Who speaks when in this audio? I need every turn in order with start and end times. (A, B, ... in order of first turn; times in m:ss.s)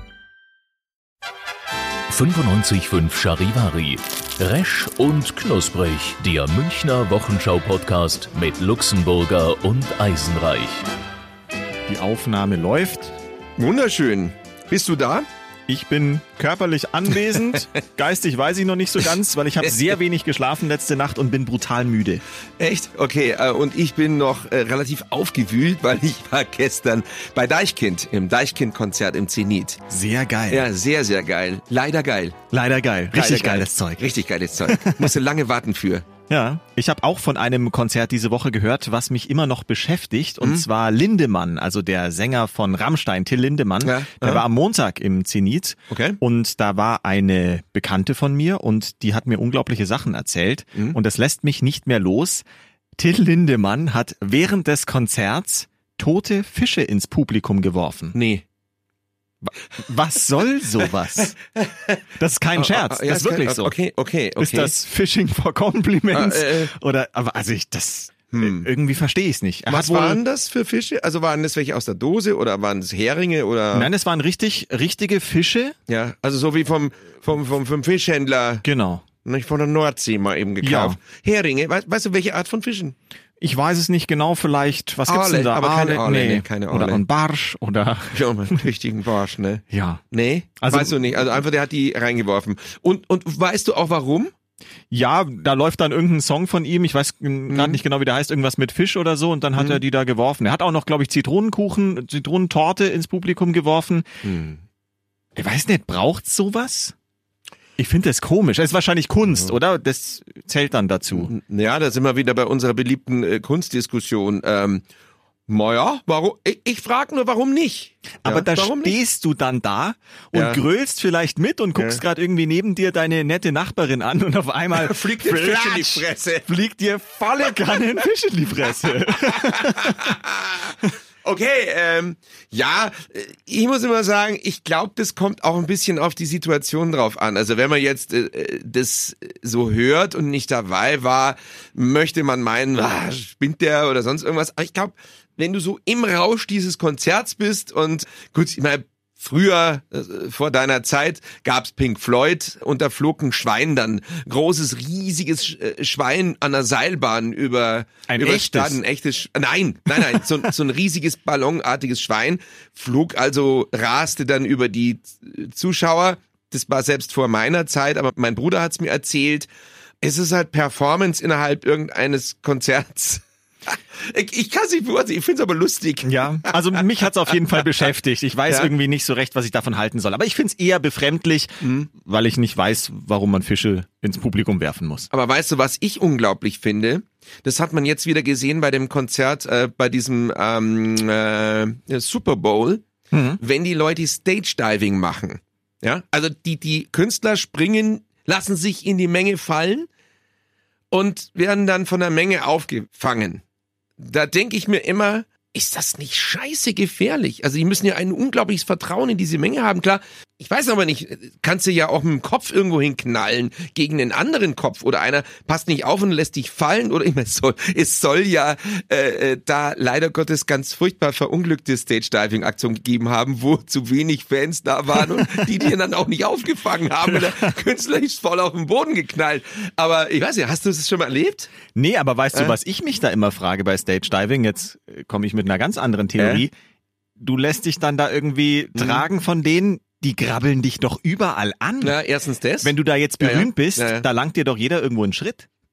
0:02.1-0:10.8 A
0:11.9-0:13.1 B
0:13.6-0:15.2 C
0:15.7-0:22.2 B
0:22.6-0:29.8 C
0:29.9-0:30.6 B
0:30.5-0:32.4 C
0:32.5-0:34.1 B
0:33.1-0:36.1 C
0:34.6-0:35.1 B
0:36.3-0:52.4 B
0:40.4-0:40.6 C
0:43.8-0:44.4 C
0:45.9-0:46.2 C
0:53.0-0:58.2 B
0:58.1-0:58.4 C
0:59.8-1:01.4 B
1:01.5-1:02.0 C
1:02.2-1:03.7 B
1:02.6-1:04.7 C
1:04.4-1:10.2 B
1:06.1-1:06.7 C
1:08.3-1:08.7 C
1:09.7-1:13.9 C
1:13.7-1:15.7 B
1:15.9-1:18.6 C
1:18.6-1:19.0 B
1:19.2-1:22.9 C
1:20.6-1:21.0 B
1:23.4-1:28.7 B
1:25.0-1:27.0 C
1:28.1-1:34.3 C
1:29.7-1:30.0 B
1:30.6-1:31.0 B
1:34.9-1:44.1 B
1:37.5-1:37.8 C
1:39.6-1:39.8 C
1:44.2-1:44.6 C
1:45.4-1:46.9 B
1:47.8-1:51.3 B
1:51.1-1:54.8 C
1:55.5-1:59.0 C
1:58.2-2:10.2 B
2:00.3-2:00.6 C
2:01.8-2:02.0 C
2:04.7-2:06.5 C
2:09.2-2:49.5 C
2:38.1-2:38.8 B
2:50.0-2:56.6 C
2:56.0-3:05.1 B
3:01.6-3:01.9 C
3:05.1-3:12.8 C
3:13.1-3:13.4 B
3:13.4-3:19.9 C
3:20.9-3:23.4 C
3:24.0-3:51.5 C
3:51.7-3:56.5 B
3:56.2-3:56.4 C
3:57.2-4:02.0 B
3:58.7-3:59.0 C
4:01.8-4:04.0 C
4:02.6-4:05.5 B